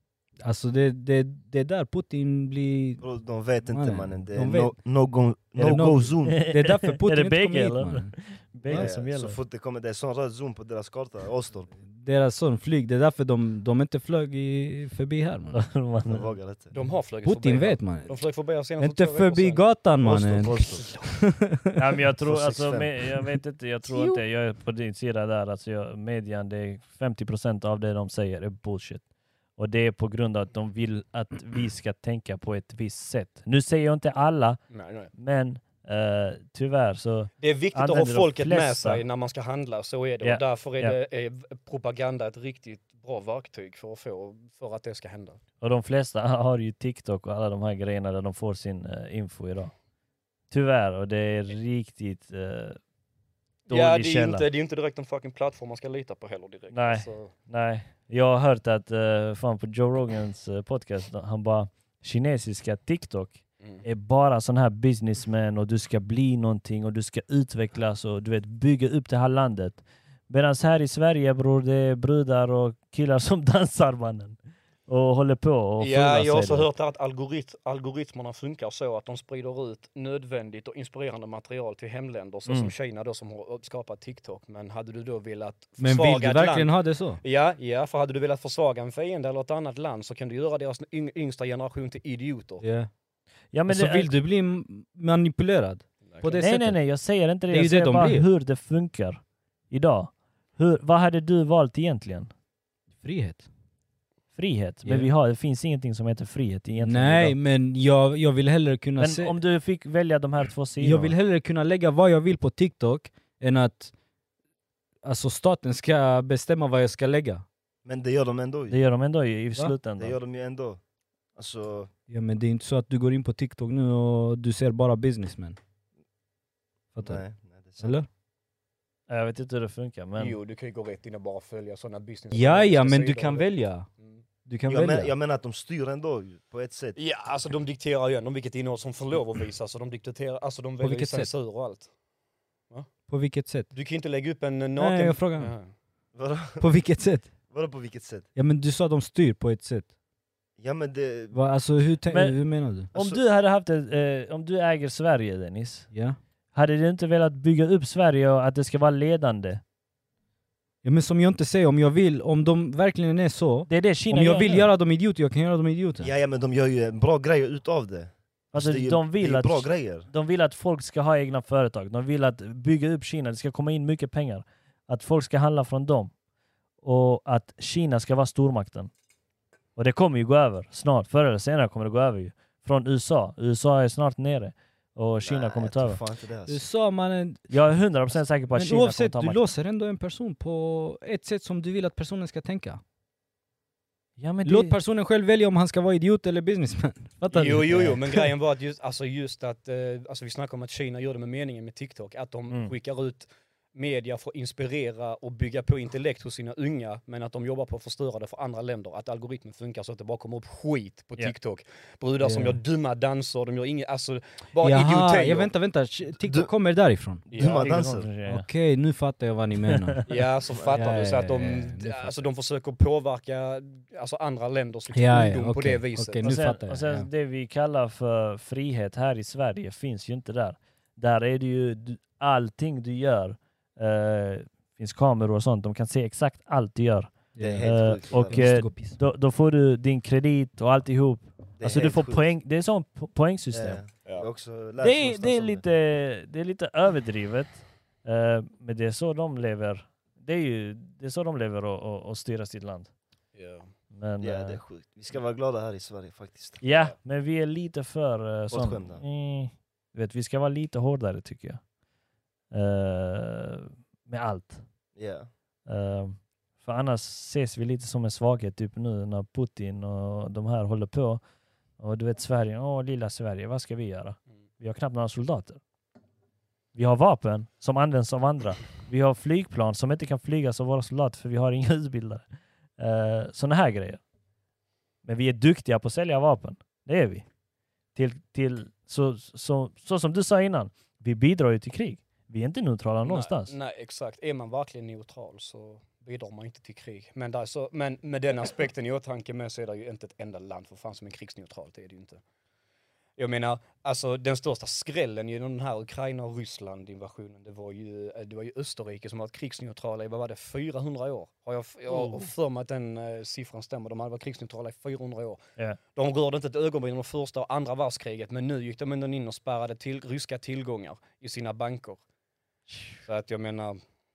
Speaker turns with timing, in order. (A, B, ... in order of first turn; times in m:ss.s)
0:00.4-0:03.0 A
0:03.0-0:06.4 B
0:03.7-0:04.8 A
0:05.6-0:08.1 A
0:05.6-0:09.4 C
0:08.7-0:11.7 B
0:11.9-0:15.6 A
0:15.5-0:16.3 C
0:16.0-0:16.7 B
0:16.7-0:19.8 D
0:17.2-0:18.1 A
0:18.8-0:21.7 A
0:20.0-0:21.1 B
0:20.4-0:21.0 D
0:21.8-0:34.6 C
0:22.2-0:23.2 B
0:34.7-0:35.1 D
0:35.1-0:39.0 C
0:37.4-0:45.4 D
0:40.2-0:41.0 C
0:45.6-0:49.7 C
0:50.5-0:52.8 C
0:53.7-0:54.5 C
0:53.7-0:57.3 D
0:56.7-1:16.7 C
1:15.8-1:32.6 D
1:22.5-1:22.7 C
1:25.8-1:27.2 A
1:32.6-1:32.9 A
1:33.5-1:34.2 C
1:33.7-1:36.8 A
1:36.1-1:36.4 D
1:36.4-1:42.3 C
1:37.5-1:38.3 A
1:43.0-1:43.5 A
1:44.4-1:47.4 C
1:44.8-1:45.1 A
1:46.8-1:49.4 A
1:49.0-1:51.2 C
1:50.8-1:53.9 A
1:55.0-1:57.4 A
1:57.8-1:58.8 B
1:58.7-2:00.2 C
2:00.0-2:00.8 B
2:01.4-2:01.9 B
2:02.1-2:05.6 A
2:06.9-2:07.2 A
2:07.0-2:08.0 B
2:07.8-2:08.1 A
2:09.1-2:10.4 C
2:10.2-2:14.2 D
2:12.3-2:13.9 A
2:14.5-2:15.1 A
2:14.7-2:17.0 B
2:17.0-2:21.9 D
2:20.8-2:21.3 A
2:23.1-2:23.7 A
2:23.7-2:25.7 D
2:24.8-2:25.5 A
2:26.2-2:26.7 B
2:26.6-2:27.3 A
2:27.5-2:28.3 B
2:28.4-2:29.9 A
2:30.6-2:31.4 B
2:31.3-2:32.9 A
2:32.1-2:35.9 C
2:32.9-2:33.2 B
2:35.9-2:36.2 A
2:36.5-2:39.6 C
2:40.8-2:46.1 A
2:43.7-2:44.7 C
2:46.0-2:50.1 B
2:48.5-2:56.1 C
2:56.8-2:58.9 C
2:59.8-3:06.0 C
3:05.2-3:06.6 B
3:06.5-3:07.7 A
3:07.5-3:09.4 C
3:08.5-3:12.8 A
3:14.2-3:14.8 C
3:14.4-3:18.3 A
3:17.3-3:35.5 D
3:32.2-3:32.6 A
3:34.6-3:37.2 A
3:37.3-3:37.8 D
3:37.3-3:38.1 B
3:37.4-3:38.5 C
3:38.2-3:40.0 A
3:39.8-3:40.2 C
3:40.1-3:46.3 D
3:40.6-3:41.1 B
3:40.7-3:42.2 A
3:44.9-3:47.1 A
3:46.2-4:03.8 C
3:57.4-3:59.0 A
3:57.4-3:58.5 B
4:01.6-4:02.3 B
4:03.5-4:05.7 B
4:04.8-4:12.9 C
4:13.4-4:13.7 D
4:13.9-4:14.6 C
4:14.2-4:16.6 B
4:16.6-4:21.7 C
4:18.5-4:19.0 B
4:22.5-4:24.7 C
4:25.0-4:25.3 B
4:25.7-4:31.2 C
4:31.8-4:35.6 C
4:36.7-4:44.0 C
4:45.0-4:47.3 C
4:48.0-4:53.6 C
4:53.1-5:02.2 D
5:03.2-5:15.4 D
5:11.9-5:12.3 C
5:16.0-5:22.0 D
5:23.1-5:23.8 D